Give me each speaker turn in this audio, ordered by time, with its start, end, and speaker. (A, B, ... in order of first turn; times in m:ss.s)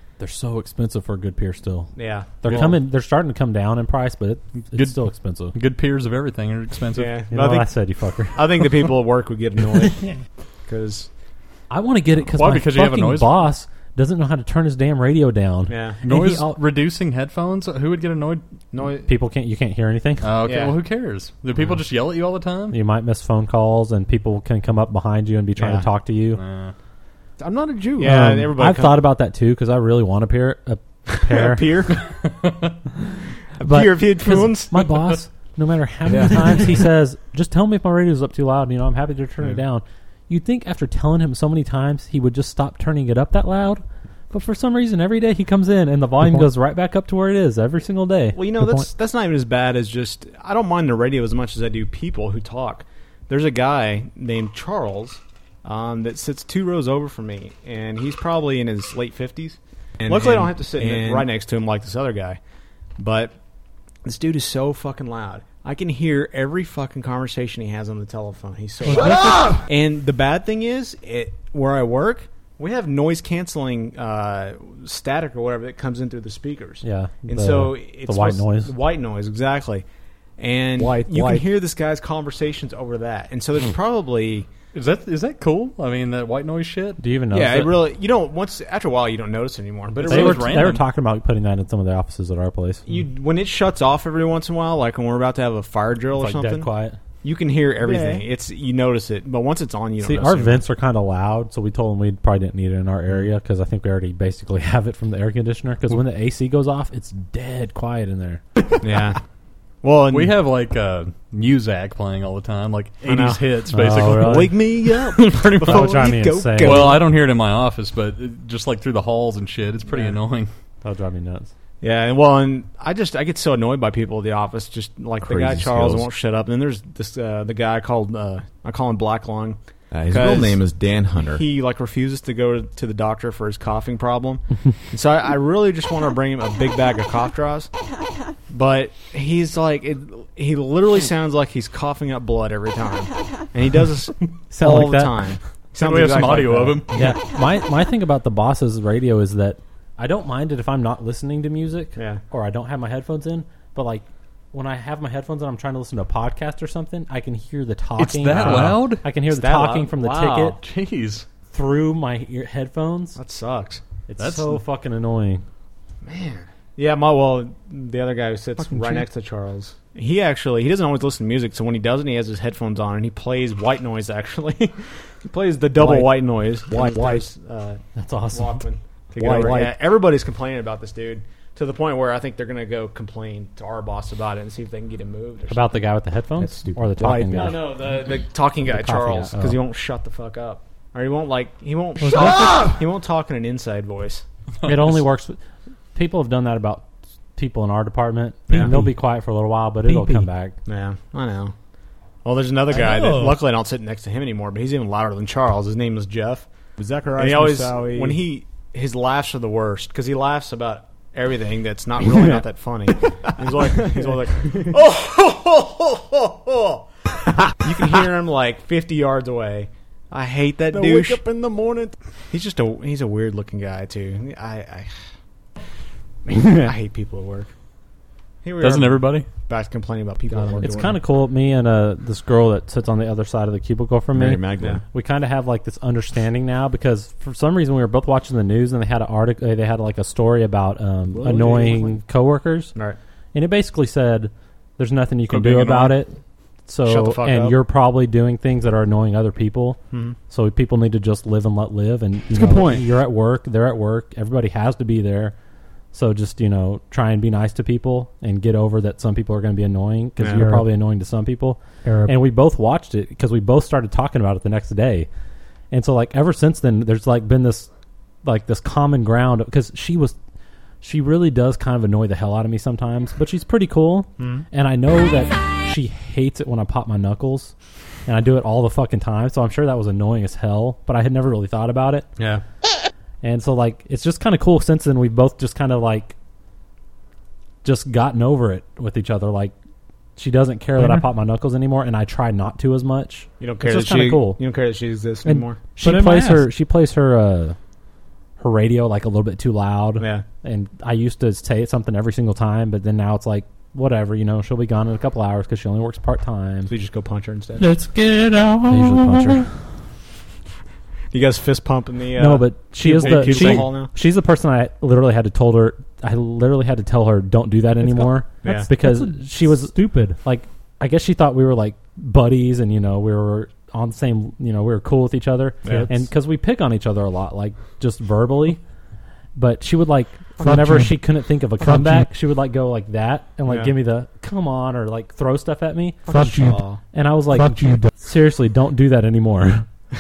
0:00.2-0:05.5 A
0:01.9-0:02.8 B
0:04.7-0:05.0 C
0:05.5-0:07.1 C
0:06.9-0:07.7 B
0:07.3-0:08.7 A
0:08.3-0:10.1 B
0:10.7-0:11.1 B
0:11.7-0:16.6 A
0:12.3-0:13.4 C
0:15.7-0:16.0 B
0:16.0-0:18.4 C
0:18.7-0:19.1 B
0:19.0-0:20.3 A
0:20.2-0:22.8 C
0:20.4-0:20.8 B
0:22.7-0:26.4 A
0:25.6-0:25.9 B
0:26.4-0:26.7 C
0:27.4-0:27.7 D
0:27.4-0:29.0 B
0:28.0-0:31.8 A
0:31.1-0:32.0 B
0:32.2-0:32.7 C
0:33.6-0:34.9 B
0:33.6-0:48.9 A
0:36.2-0:36.5 B
0:48.3-1:02.4 B
1:00.0-1:01.4 D
1:03.0-1:03.3 B
1:04.0-1:19.8 B
1:08.9-1:09.6 E
1:16.8-1:18.7 A
1:20.4-1:24.5 B
1:20.8-1:21.4 D
1:24.7-1:27.0 C
1:27.0-1:27.8 A
1:27.3-1:30.7 B
1:29.9-1:30.8 C
1:30.0-1:32.8 A
1:32.9-1:36.7 B
1:36.1-1:37.0 A
1:37.2-1:40.6 B
1:37.8-1:38.2 D
1:40.0-1:48.4 A
1:48.8-1:49.2 B
1:49.8-1:50.4 B
1:50.1-1:55.8 C
1:53.0-1:53.4 B
1:53.7-1:54.6 A
1:54.0-1:57.0 B
1:55.6-1:57.0 A
1:56.6-2:00.5 C
1:59.9-2:00.2 B
2:00.8-2:01.5 A
2:01.8-2:10.6 B
2:05.2-2:06.1 D
2:09.9-2:11.4 D
2:11.3-2:17.7 B
2:18.5-2:27.1 B
2:24.5-2:25.2 A
2:25.8-2:27.2 C
2:26.9-2:40.6 A
2:32.0-2:32.2 B
2:38.0-2:39.0 C
2:38.3-2:40.3 B
2:40.2-2:41.2 C
2:41.5-2:43.2 A
2:43.2-2:43.8 B
2:44.1-2:45.4 A
2:44.2-2:44.6 C
2:46.0-2:57.8 B
2:48.6-2:49.0 A
2:55.8-2:56.1 A
2:55.8-2:56.1 D
2:56.7-2:57.2 D
2:58.0-2:58.6 A
2:58.3-3:05.7 B
2:59.2-2:59.7 D
3:05.5-3:07.7 A
3:06.4-3:07.7 D
3:07.0-3:14.2 B
3:08.6-3:09.6 A
3:12.1-3:12.6 A
3:14.6-3:15.4 A
3:15.9-3:20.6 A
3:18.6-3:18.9 E
3:19.8-3:20.3 E
3:20.6-3:21.5 B
3:22.2-3:26.5 B
3:22.7-3:23.4 E
3:26.8-3:28.2 D
3:27.1-3:36.8 B
3:33.6-3:34.8 D
3:37.6-3:41.2 B
3:40.7-3:41.9 D
3:42.3-3:44.9 B
3:46.3-3:47.5 B
3:48.4-3:51.0 B
3:48.6-3:49.3 C
3:50.5-3:50.9 D
3:50.6-4:02.7 A
3:54.1-3:54.8 D
3:54.6-3:54.8 B
4:01.2-4:02.0 B
4:03.3-4:06.1 A
4:05.3-4:06.0 C
4:06.7-4:09.8 A
4:06.8-4:07.6 B
4:10.3-4:15.3 A
4:12.3-4:12.8 E
4:15.9-4:25.1 A
4:20.2-4:20.4 B
4:20.3-4:20.6 E
4:21.8-4:22.2 E
4:25.7-4:27.7 A
4:28.2-4:30.2 A
4:30.8-4:37.5 A
4:34.2-4:34.4 B
4:38.0-4:42.1 A
4:43.2-4:46.1 A
4:47.6-4:49.5 A
4:50.2-4:54.4 A
4:50.8-4:51.0 E
4:53.4-4:55.6 B
4:55.2-4:57.6 A
4:55.8-4:56.5 E
4:58.4-5:06.7 A
5:00.0-5:00.2 B
5:06.7-5:07.7 B
5:07.6-5:09.0 E
5:08.6-5:09.4 A
5:11.1-5:13.9 B
5:12.2-5:28.6 A
5:12.9-5:13.7 C
5:17.8-5:18.1 E
5:18.4-5:18.7 B
5:18.7-5:20.1 E
5:25.6-5:25.9 B
5:29.4-5:39.6 A
5:30.4-5:30.9 E
5:31.6-5:32.0 E
5:36.1-5:36.8 B
5:36.3-5:36.6 E
5:37.5-5:37.8 E